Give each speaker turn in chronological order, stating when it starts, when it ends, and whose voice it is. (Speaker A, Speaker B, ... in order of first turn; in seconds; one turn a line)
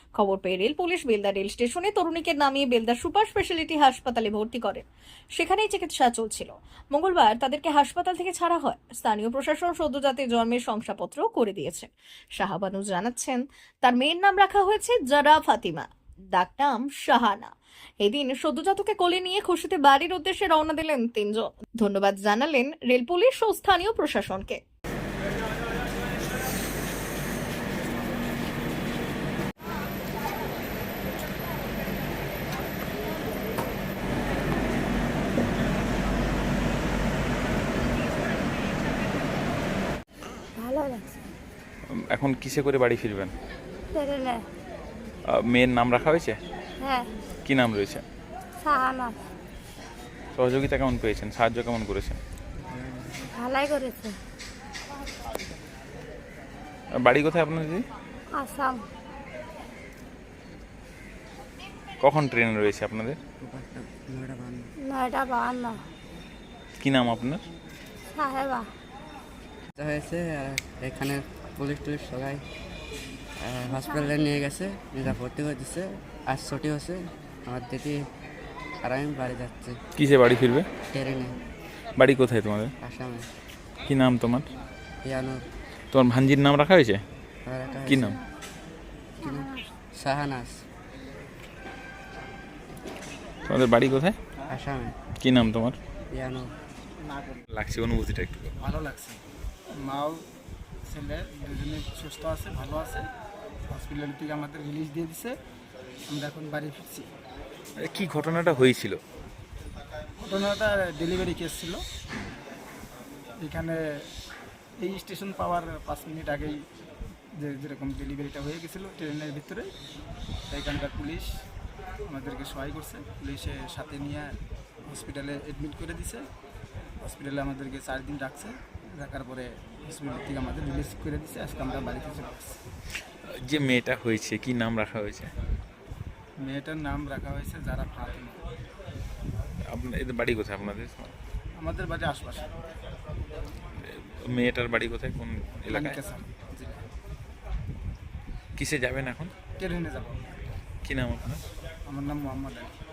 Speaker A: 0.2-4.8
Speaker A: 5.4-24.6
Speaker B: 40.6-41.0
Speaker C: 41.9-43.3
Speaker B: 43.9-44.5
Speaker C: 45.3-46.4
Speaker B: 46.8-47.1
Speaker C: 47.5-48.0
Speaker B: 48.6-49.2
Speaker C: 50.4-52.2
Speaker D: 52.7-53.3
Speaker B: 53.4-54.2
Speaker C: 57.0-57.8
Speaker B: 58.4-58.9
Speaker C: 62.0-63.2
Speaker D: 63.4-64.7
Speaker B: 64.8-65.8
Speaker C: 66.8-67.4
Speaker B: 68.2-68.7
Speaker D: 69.8-72.4
Speaker D: 73.4-78.0
Speaker D: 78.8-79.8
Speaker C: 80.0-80.7
Speaker D: 80.9-81.3
Speaker C: 82.0-82.7
Speaker D: 82.8-83.3
Speaker C: 83.9-84.5
Speaker D: 85.0-85.5
Speaker C: 85.9-87.0
Speaker D: 87.5-88.2
Speaker C: 87.9-88.2
Speaker D: 89.2-90.6
Speaker C: 93.5-94.2
Speaker D: 94.5-95.0
Speaker C: 95.2-95.8
Speaker D: 96.1-96.5
Speaker E: 97.0-97.4
Speaker C: 97.5-98.5
Speaker E: 98.6-99.2
Speaker E: 99.8-100.2
Speaker E: 100.9-103.1
Speaker E: 103.7-105.4
Speaker E: 106.1-107.1
Speaker C: 107.8-109.0
Speaker E: 110.2-111.8
Speaker E: 113.4-114.1
Speaker E: 114.8-116.6
Speaker E: 117.4-119.7
Speaker E: 120.5-121.3
Speaker E: 122.1-124.4
Speaker E: 124.9-126.2
Speaker E: 127.0-132.6
Speaker C: 133.5-135.3
Speaker E: 136.4-138.4
Speaker C: 139.7-141.1
Speaker E: 141.6-142.5
Speaker C: 143.8-146.0
Speaker E: 145.7-146.8
Speaker C: 148.6-149.3
Speaker E: 149.6-150.2
Speaker C: 150.8-151.4
Speaker E: 151.9-152.7